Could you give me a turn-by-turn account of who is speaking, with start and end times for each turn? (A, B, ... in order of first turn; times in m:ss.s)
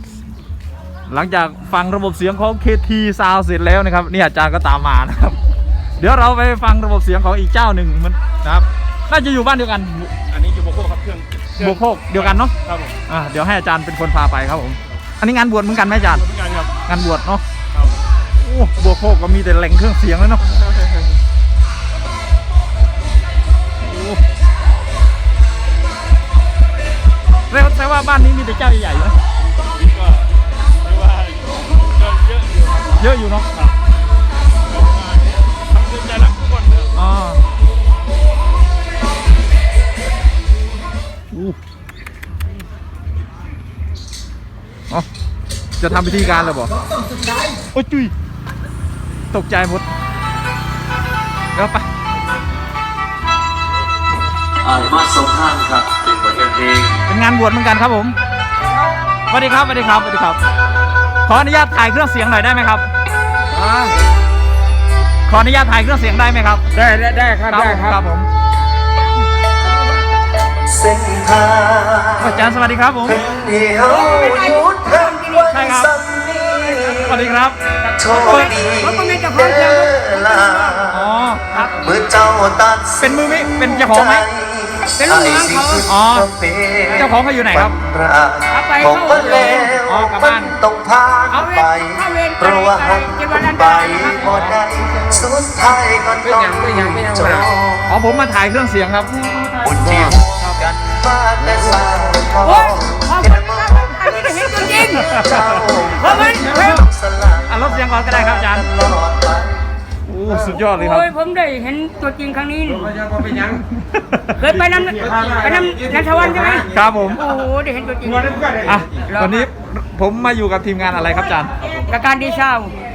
0:01.1-0:05.4 A
0:06.0-0:10.1 A
0:10.3-0:11.6 B
0:11.6-0:12.6 A
0:13.1-0:16.3 A
0:16.4-0:16.7 B
0:16.9-0:17.4 A
0:18.4-0:20.4 A
0:23.8-0:24.2 A
0:27.5-0:29.2 A
0:30.9-0:32.8 B
0:33.0-0:33.5 A
0:35.7-0:36.8 B
0:36.9-0:37.4 A
0:41.3-0:41.6 A
0:45.8-0:46.7 A
0:47.7-0:48.1 A
0:49.3-0:49.8 A
0:51.5-0:51.8 A
0:54.6-0:57.0 C
0:57.1-0:58.2 A
0:59.3-1:00.4 A
1:01.2-1:02.9 A
1:03.5-1:03.9 D
1:05.3-1:06.6 A
1:06.7-1:08.0 D
1:07.5-1:08.3 A
1:10.6-1:12.5 C
1:12.2-1:13.2 A
1:13.0-1:17.3 C
1:13.8-1:15.5 D
1:15.5-1:15.9 A
1:17.0-1:17.6 A
1:17.8-1:20.9 D
1:18.0-1:21.1 C
1:18.2-1:18.5 A
1:20.9-1:21.7 A
1:21.5-1:21.9 D
1:21.8-1:37.9 C
1:23.0-1:24.3 A
1:25.0-1:25.9 D
1:25.9-1:26.3 A
1:26.9-1:27.8 A
1:28.5-1:29.8 D
1:29.3-1:30.6 A
1:31.3-1:34.4 D
1:34.2-1:34.6 A
1:37.9-1:39.6 A
1:39.6-1:49.6 C
1:42.4-1:45.1 D
1:45.0-1:46.8 A
1:46.0-1:46.8 D
1:47.5-1:48.7 A
1:50.1-1:51.1 A
1:50.4-1:53.1 D
1:53.3-1:54.6 A
1:54.3-1:59.5 D
1:56.7-1:57.2 A
1:58.6-2:01.5 A
2:01.8-2:02.7 D